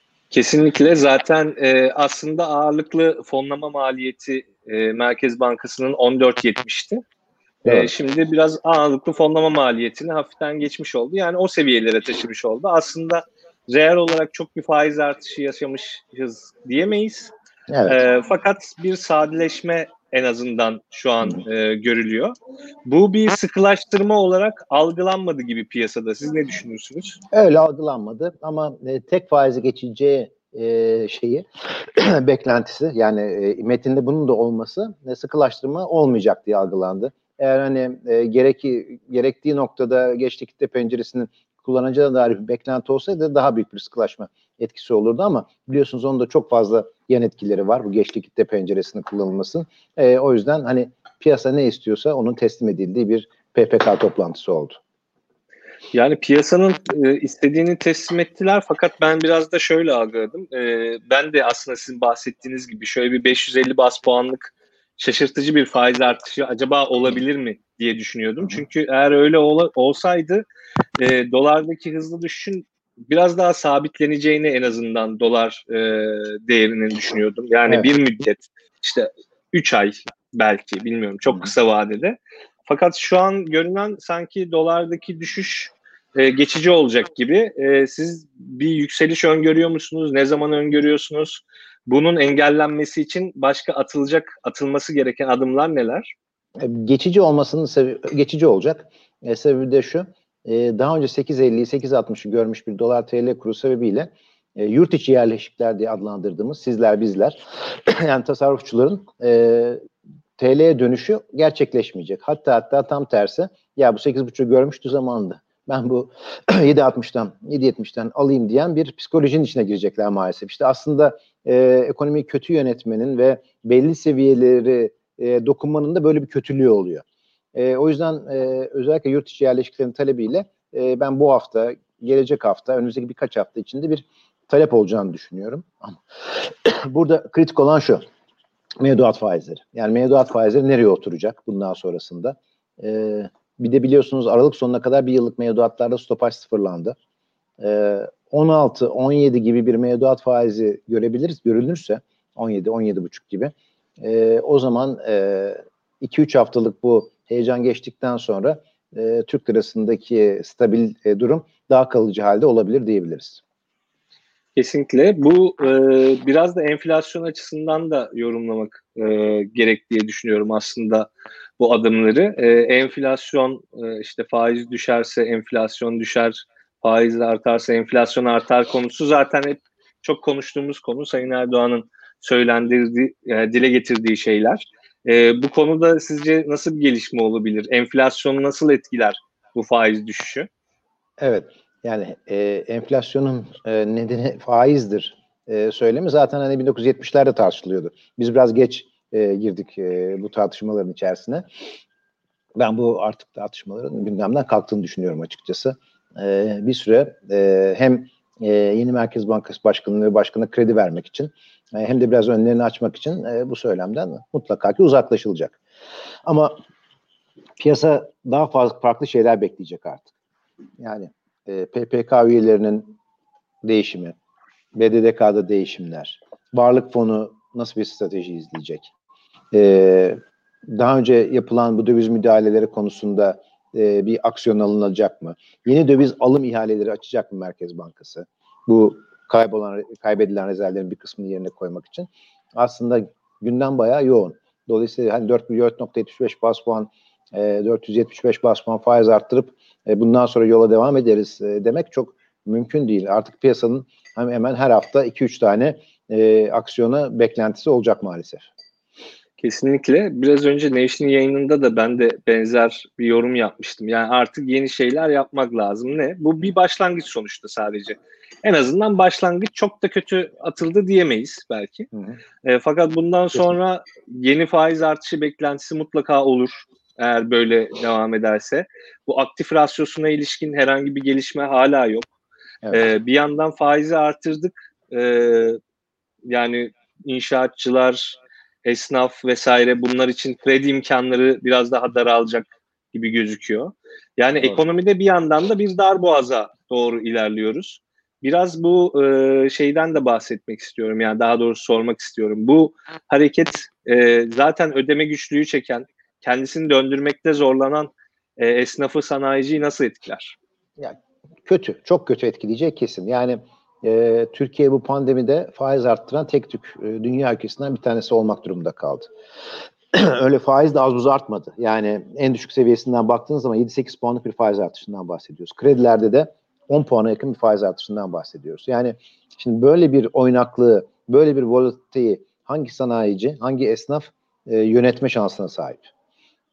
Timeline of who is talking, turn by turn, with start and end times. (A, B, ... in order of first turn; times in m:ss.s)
0:00.3-0:07.0 A
0:07.6-0:07.9 B
0:07.6-0:17.3 A
0:17.7-0:18.0 B
0:17.8-0:22.3 A
0:22.8-0:27.2 A
0:27.3-0:54.8 B
0:55.9-1:10.4 A
1:11.0-1:36.1 A
1:36.6-1:49.8 B
1:50.4-2:07.0 B
2:07.5-2:18.0 B
2:18.8-2:27.0 B
2:27.6-2:43.4 B
2:44.6-3:10.5 A
3:11.2-3:21.4 B
3:22.6-3:35.6 B
3:36.2-3:36.6 B
3:37.6-3:40.1 B
3:40.8-3:42.9 B
3:43.6-3:44.1 B
3:44.7-3:48.9 B
3:49.5-4:18.5 B
4:19.4-4:31.9 A
4:31.9-4:32.2 B
4:32.4-4:42.1 A
4:42.7-4:45.6 A
4:46.3-5:10.4 A
5:10.8-5:19.1 B
5:19.9-5:35.9 B